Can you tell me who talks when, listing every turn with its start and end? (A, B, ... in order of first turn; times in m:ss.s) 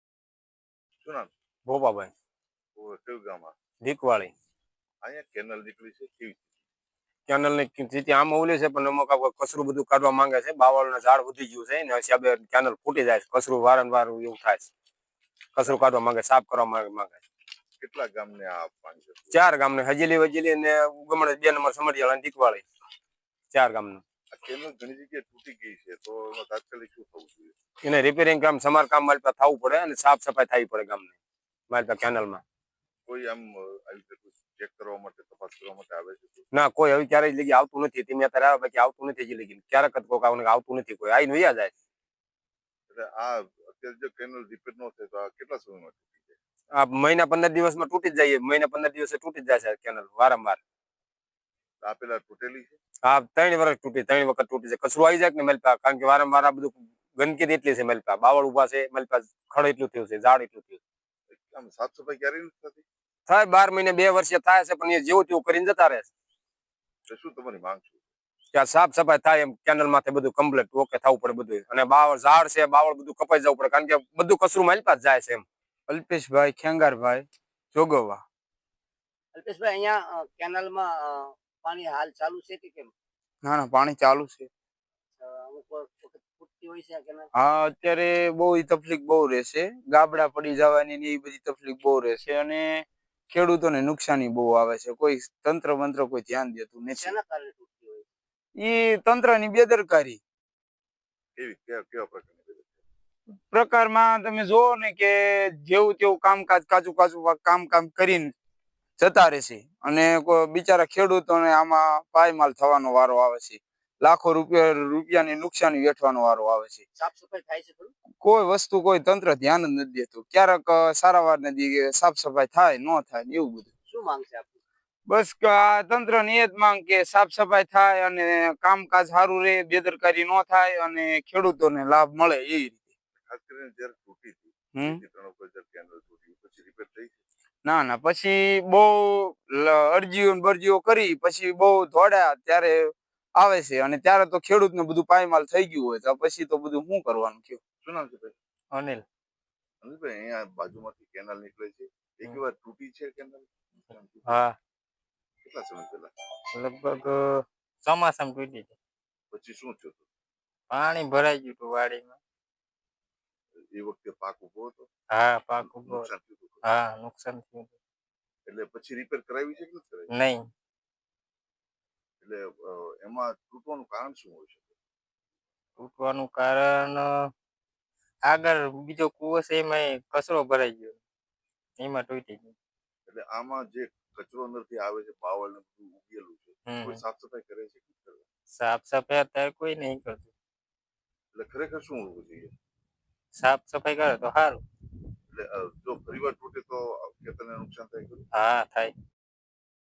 0:01.0-0:01.3 A
0:01.7-0:02.1 B
0:02.8-0:03.5 A
0:03.8-0:04.3 B
0:05.0-0:06.4 A
0:07.3-0:14.7 B
0:15.6-0:17.2 B
0:17.8-0:19.4 A
0:19.3-0:22.6 B
0:23.5-0:24.0 B
0:24.3-0:27.5 A
0:27.8-0:31.1 B
0:31.7-0:32.4 B
0:33.1-0:36.4 A
0:36.5-0:41.7 B
0:42.9-0:46.4 A
0:46.7-0:50.6 B
0:51.8-0:52.8 A
0:53.0-1:00.8 B
1:01.3-1:02.8 A
1:03.3-1:06.1 B
1:07.1-1:08.0 A
1:08.5-1:15.4 B
1:15.9-1:18.2 C
1:19.3-1:22.9 D
1:23.4-1:24.5 C
1:25.2-1:27.3 D
1:27.4-1:37.2 C
1:37.0-1:38.1 D
1:38.6-1:40.2 C
1:41.4-1:42.8 A
1:43.5-1:48.3 C
1:49.0-1:56.8 C
1:57.0-1:57.9 D
1:58.2-2:03.7 C
2:03.8-2:04.6 D
2:05.1-2:12.8 C
2:13.2-2:17.2 A
2:14.7-2:15.0 C
2:17.6-2:27.6 C
2:27.8-2:28.3 A
2:28.7-2:29.0 E
2:29.8-2:34.4 A
2:34.2-2:34.6 E
2:35.4-2:36.1 A
2:36.5-2:38.8 E
2:39.3-2:40.0 A
2:40.7-2:42.2 E
2:43.7-2:44.9 A
2:45.1-2:46.1 E
2:45.6-2:46.6 A
2:46.6-2:47.8 E
2:48.5-2:50.1 A
2:50.1-2:50.5 E
2:52.2-2:54.7 A
2:55.8-2:57.3 E
2:58.2-3:01.0 E
3:01.8-3:02.5 E
3:03.1-3:08.2 A
3:06.6-3:07.0 E
3:08.5-3:10.3 E
3:11.3-3:12.5 A
3:13.3-3:14.6 E
3:15.3-3:18.2 A
3:18.3-3:18.9 E